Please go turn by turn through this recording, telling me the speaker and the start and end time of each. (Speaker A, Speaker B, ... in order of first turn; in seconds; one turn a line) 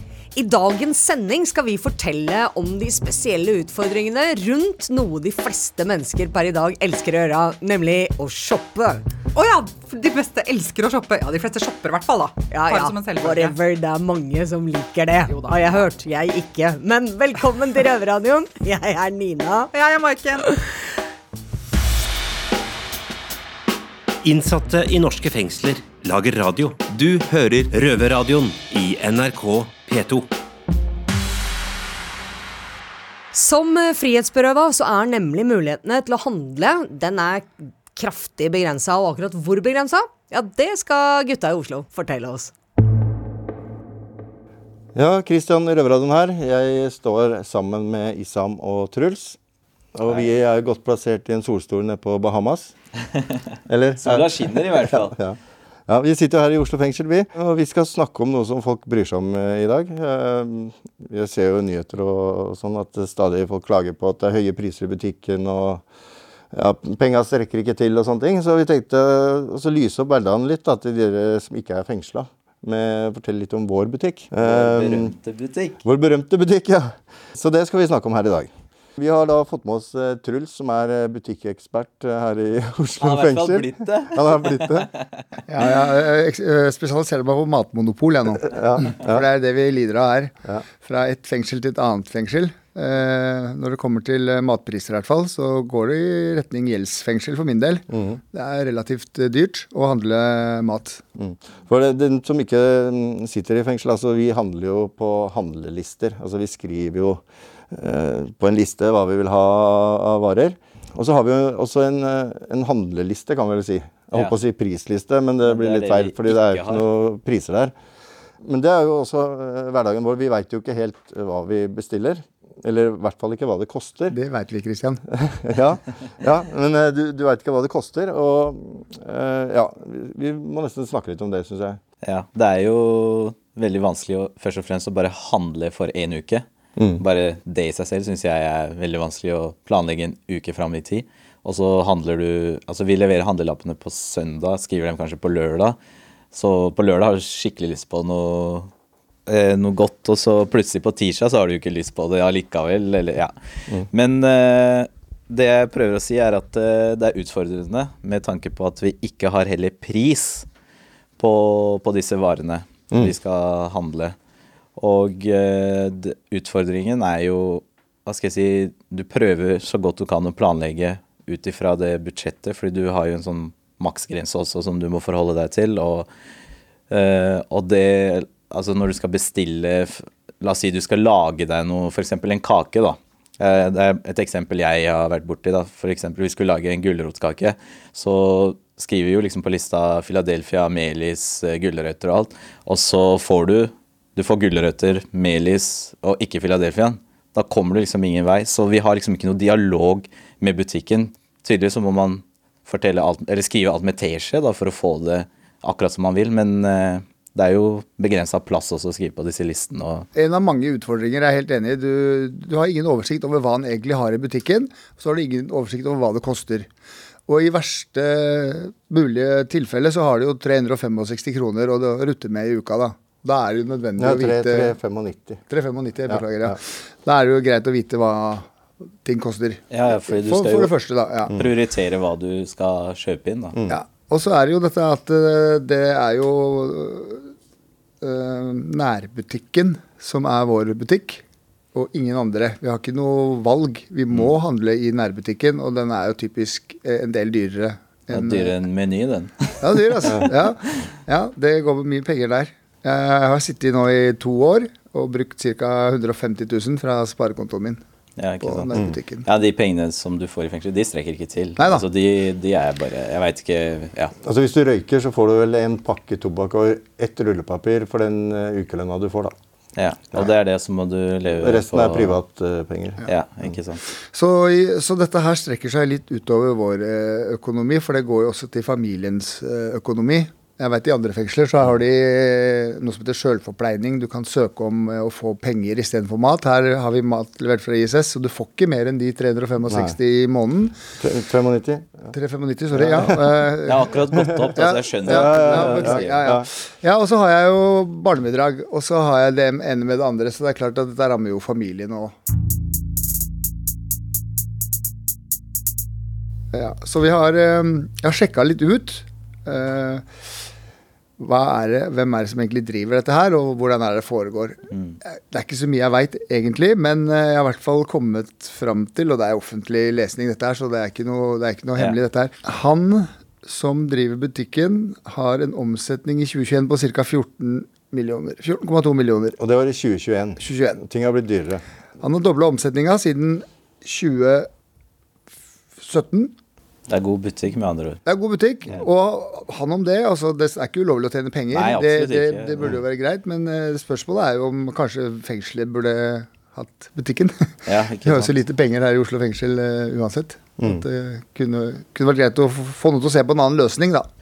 Speaker A: 0.3-9.0
Speaker B: 9.3-13.6
Speaker A: 12.5-19.7
Speaker B: 15.3-15.9
Speaker B: 19.7-20.5
Speaker C: 24.2-30.3
Speaker A: 33.3-42.5
Speaker D: 44.9-49.4
Speaker D: 49.9-52.7
Speaker D: 53.7-65.8
Speaker E: 54.0-55.1
Speaker D: 66.5-75.2
Speaker E: 74.4-75.8
Speaker D: 75.8-84.9
Speaker E: 83.0-85.1
Speaker F: 85.5-101.0
Speaker D: 88.5-89.2
Speaker D: 97.9-98.2
Speaker D: 101.2-117.7
Speaker E: 115.4-116.8
Speaker D: 118.4-124.2
Speaker F: 124.1-125.0
Speaker D: 125.4-131.8
Speaker E: 132.0-136.4
Speaker D: 136.8-137.0
Speaker E: 137.0-145.8
Speaker E: 146.3-148.7
Speaker E: 149.3-160.5
Speaker E: 161.2-164.2
Speaker E: 164.8-176.1
Speaker E: 176.9-210.1
Speaker F: 210.1-216.7
Speaker F: 217.3-224.7
Speaker D: 224.0-225.4
Speaker F: 225.5-228.5
Speaker D: 226.1-226.6
Speaker F: 229.0-231.3
Speaker E: 229.7-230.7
Speaker E: 231.3-233.6
Speaker F: 233.7-237.3
Speaker F: 238.0-241.2
Speaker F: 241.7-248.5
Speaker E: 248.1-250.2
Speaker F: 249.6-257.8
Speaker E: 258.2-264.1
Speaker F: 258.4-259.2
Speaker F: 261.6-261.8
Speaker D: 264.2-269.3
Speaker E: 269.8-272.1
Speaker D: 271.4-273.5
Speaker E: 273.1-273.8
Speaker F: 274.1-290.8
Speaker D: 289.7-289.9
Speaker D: 291.0-292.1
Speaker F: 292.1-293.8
Speaker D: 292.7-293.3
Speaker E: 293.7-296.2
Speaker F: 294.5-302.1
Speaker D: 295.0-296.5
Speaker F: 306.5-310.2
Speaker F: 311.2-329.4
Speaker E: 314.7-315.0
Speaker D: 329.4-331.6
Speaker F: 330.4-330.8
Speaker F: 332.0-334.5
Speaker F: 335.8-336.3
Speaker E: 336.9-338.0
Speaker F: 338.1-354.1
Speaker E: 341.5-342.7
Speaker E: 347.6-348.3
Speaker D: 350.6-350.8